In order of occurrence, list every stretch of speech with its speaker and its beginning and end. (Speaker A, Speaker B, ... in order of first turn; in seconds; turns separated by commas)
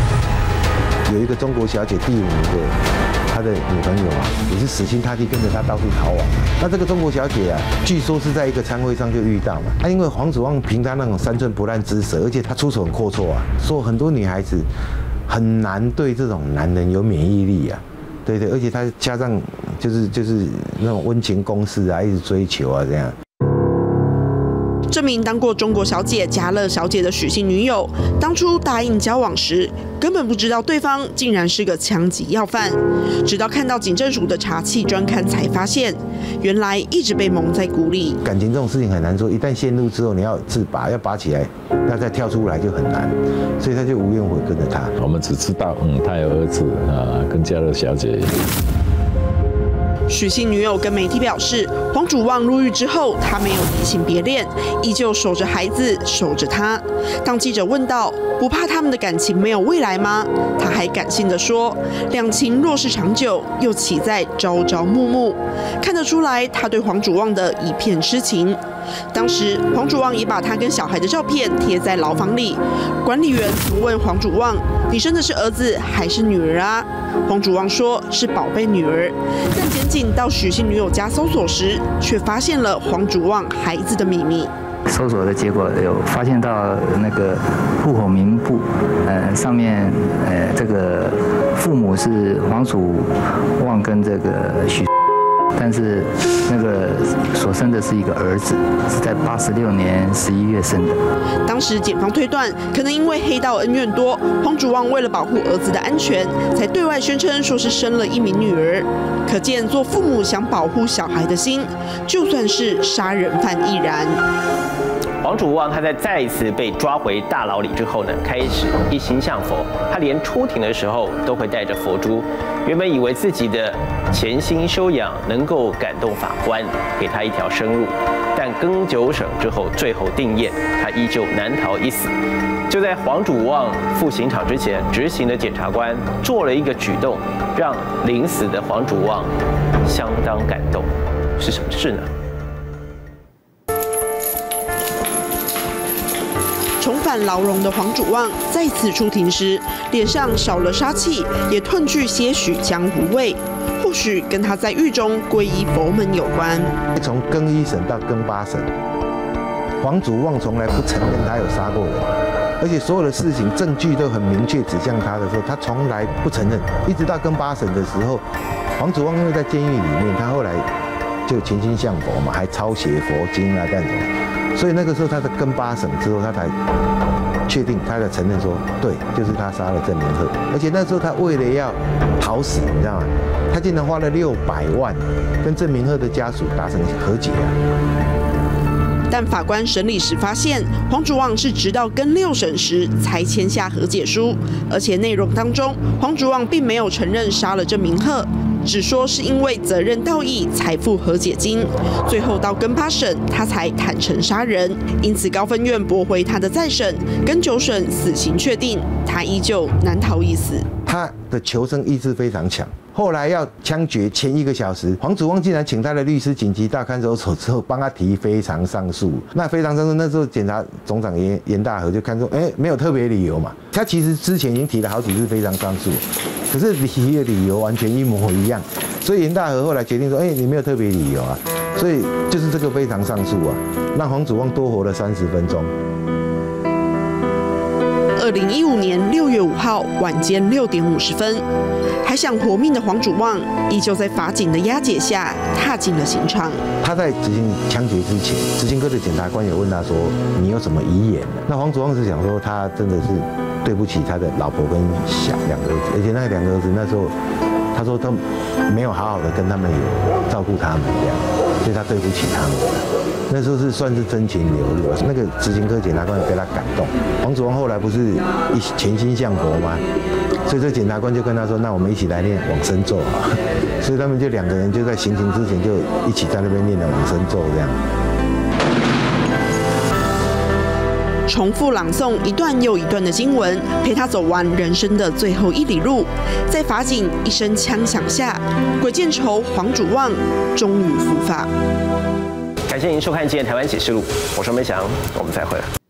Speaker A: 1.1-2.8, Speaker A: 3.3-14.7, Speaker A: 15.3-23.1, Speaker B: 24.9-38.2, Speaker A: 38.2-44.9, Speaker C: 45.0-48.4, Speaker B: 50.1-68.6, Speaker B: 69.1-84.5, Speaker D: 84.9-94.9, Speaker D: 95.6-101.0, Speaker B: 101.5-114.2, Speaker E: 115.2-132.1, Speaker E: 132.7-139.3, Speaker E: 139.8-142.1, Speaker B: 146.8-156.8, Speaker A: 156.9-158.7, Speaker A: 159.8-168.2, Speaker A: 168.8-170.7, Speaker A: 171.3-176.5, Speaker A: 177.5-187.6, Speaker B: 189.1-210.7, Speaker A: 210.8-235.7, Speaker B: 238.2-241.4, Speaker B: 242.1-246.6, Speaker A: 246.8-257.1, Speaker A: 257.7-269.9, Speaker A: 270.4-277.8, Speaker B: 281.3-291.5, Speaker E: 292.7-295.7